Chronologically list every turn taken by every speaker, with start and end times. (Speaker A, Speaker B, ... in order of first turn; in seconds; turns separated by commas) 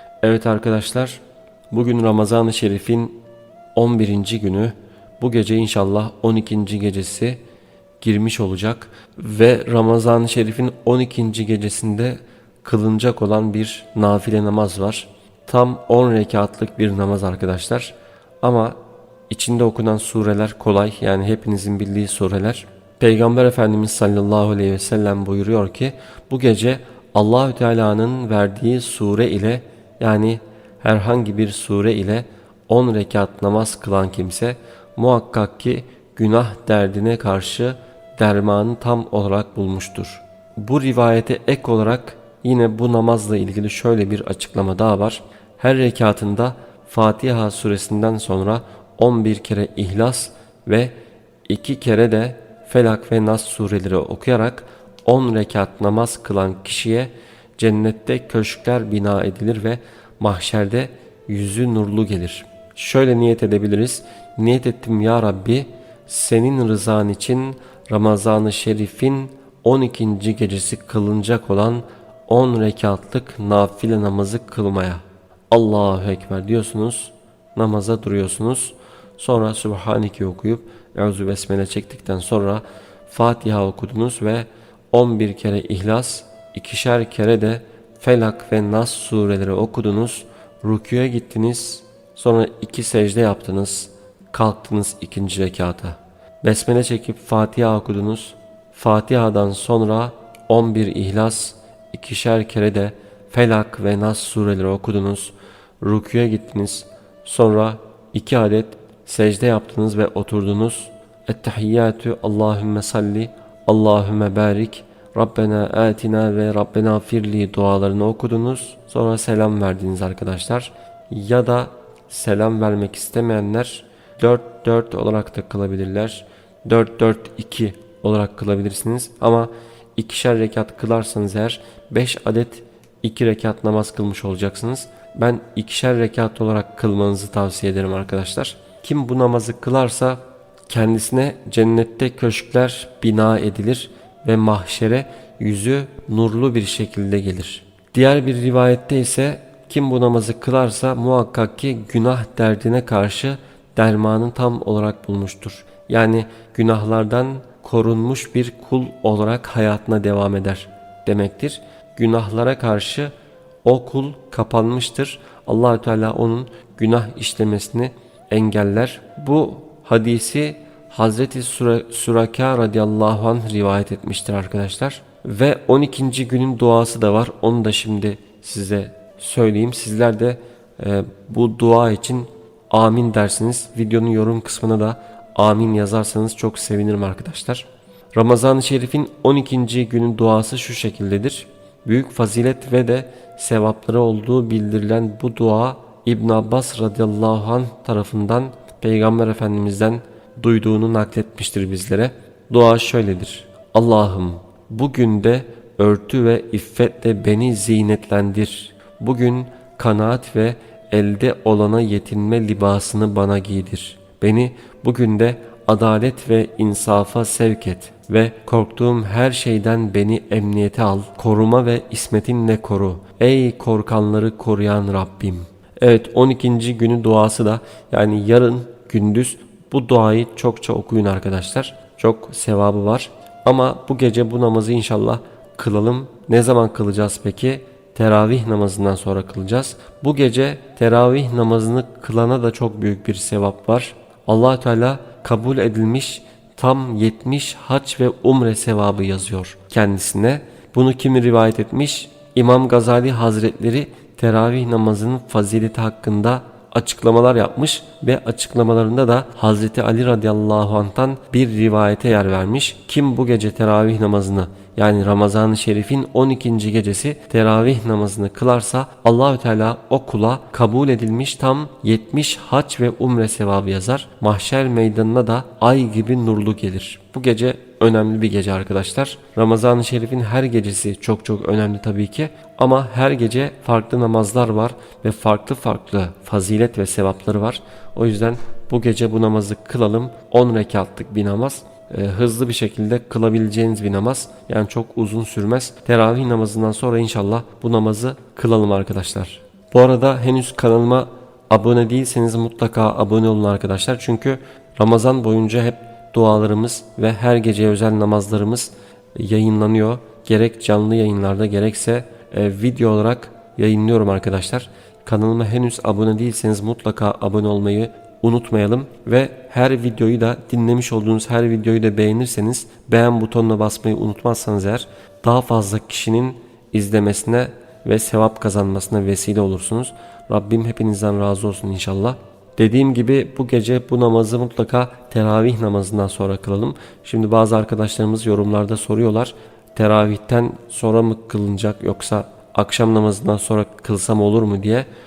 Speaker A: 0.2-3.2, Speaker A: 3.7-7.4, Speaker A: 8.0-18.8, Speaker A: 19.3-50.9, Speaker A: 51.5-163.1, Speaker A: 163.6-344.9